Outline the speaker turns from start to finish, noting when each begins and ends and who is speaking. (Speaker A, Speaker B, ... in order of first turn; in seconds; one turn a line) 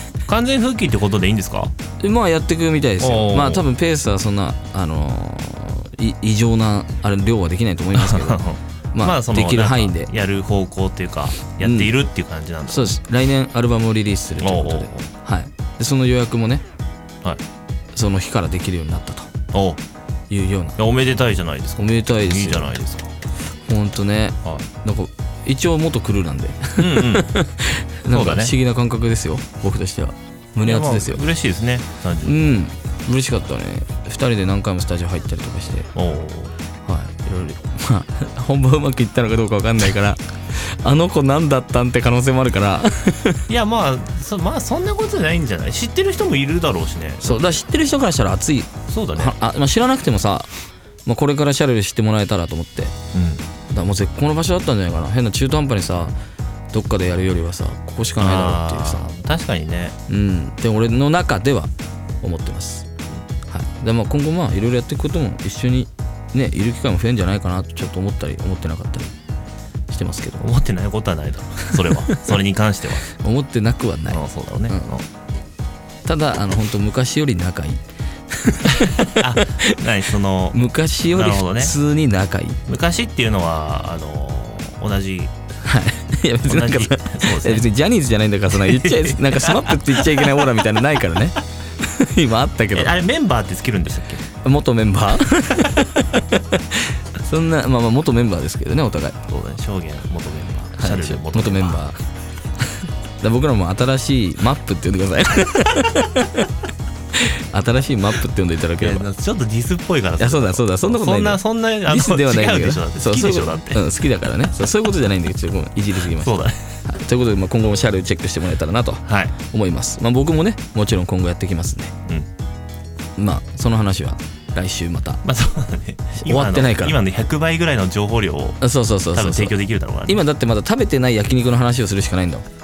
Speaker A: 0.3-1.7
Speaker B: 2.0-10.1
Speaker A: 3.0-3.6
Speaker A: 7.9-12.9
Speaker B: 11.6-11.9
Speaker B: 12.7-16.6
Speaker A: 14.4-15.1
Speaker B: 17.9-19.3
Speaker A: 19.5-19.8
Speaker B: 20.3-20.8
Speaker A: 20.8-23.0
Speaker B: 21.8-22.9
Speaker B: 23.6-31.2
Speaker A: 26.8-27.3
Speaker A: 28.1-28.5
Speaker A: 30.6-32.6
Speaker B: 32.2-35.9
Speaker A: 35.9-36.5
Speaker B: 36.9-43.4
Speaker A: 43.5-47.5
Speaker B: 47.2-50.5
Speaker A: 48.9-49.4
Speaker B: 51.0-52.9
Speaker A: 53.1-53.4
Speaker B: 53.7-56.1
Speaker B: 56.7-59.0
Speaker A: 58.2-59.9
Speaker B: 60.1-61.7
Speaker B: 62.2-62.9
Speaker B: 63.5-69.1
Speaker B: 69.9-70.4
Speaker A: 70.4-73.1
Speaker B: 71.9-72.3
Speaker B: 73.1-74.9
Speaker A: 74.1-75.0
Speaker B: 76.0-79.8
Speaker A: 79.1-80.6
Speaker B: 80.5-82.6
Speaker A: 81.1-81.7
Speaker A: 82.7-85.3
Speaker B: 85.6-92.9
Speaker A: 86.4-87.7
Speaker A: 88.5-90.5
Speaker A: 92.7-94.2
Speaker B: 94.4-99.2
Speaker A: 99.3-101.8
Speaker B: 100.8-102.0
Speaker B: 103.2-106.5
Speaker B: 107.1-109.0
Speaker A: 108.8-113.8
Speaker B: 110.2-121.9
Speaker A: 116.2-116.6
Speaker A: 119.0-119.3
Speaker B: 123.2-125.2
Speaker A: 125.2-130.2
Speaker B: 126.2-127.0
Speaker B: 128.6-129.5
Speaker B: 130.1-132.4